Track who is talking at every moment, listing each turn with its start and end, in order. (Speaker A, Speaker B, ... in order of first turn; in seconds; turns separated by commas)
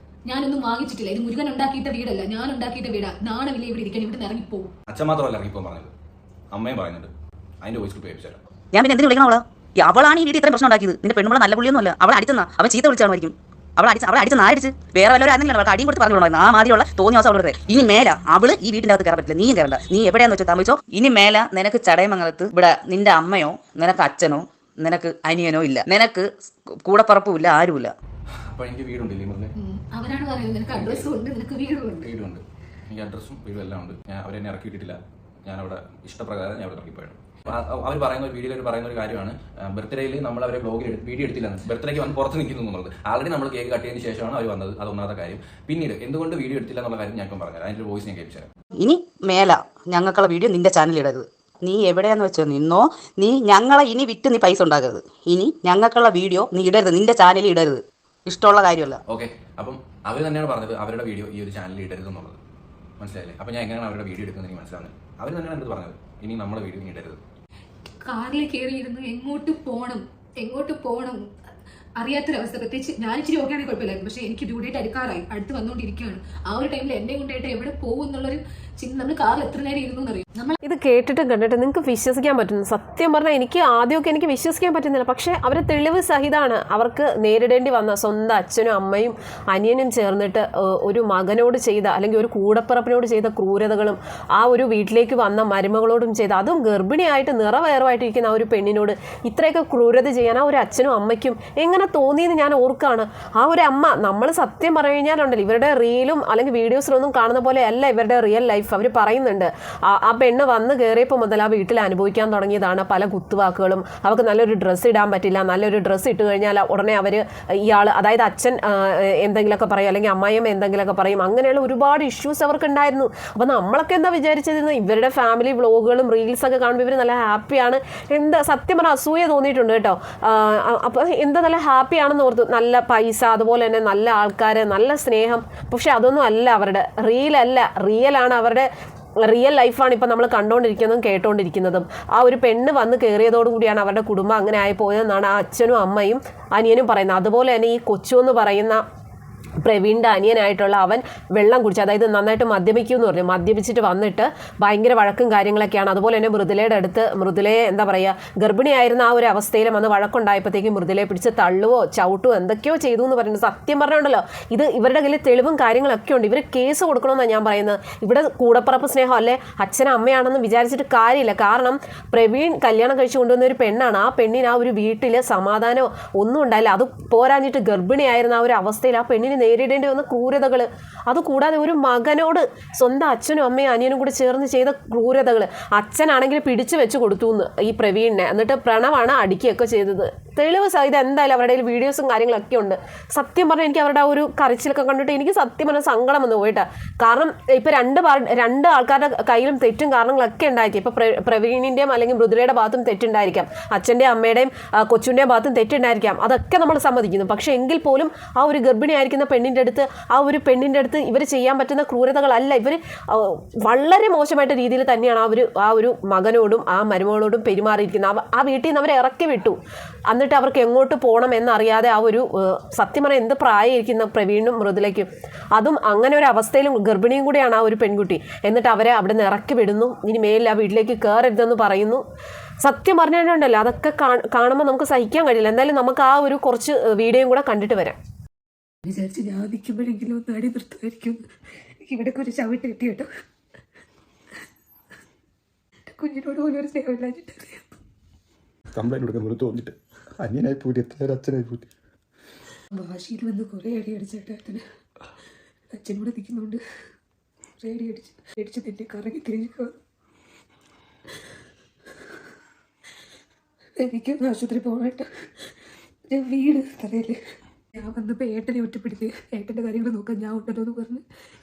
Speaker A: 0.3-4.7, Speaker B: 4.9-5.9, Speaker B: 6.5-7.1, Speaker B: 7.6-8.4, Speaker C: 8.7-27.9, Speaker B: 28.5-29.5, Speaker A: 29.6-32.1, Speaker B: 30.7-31.1, Speaker B: 32.0-48.5, Speaker C: 48.8-59.0, Speaker B: 59.1-62.4, Speaker B: 63.0-67.2, Speaker A: 68.1-71.2, Speaker A: 72.0-80.5, Speaker D: 80.6-138.7, Speaker D: 139.2-148.8, Speaker D: 149.6-232.0, Speaker D: 232.6-238.0, Speaker E: 238.8-243.1, Speaker E: 245.8-247.8, Speaker F: 248.8-251.7, Speaker E: 252.7-254.7, Speaker E: 255.7-256.6, Speaker E: 257.6-259.8, Speaker E: 263.8-265.5, Speaker E: 266.1-267.2, Speaker E: 267.7-271.1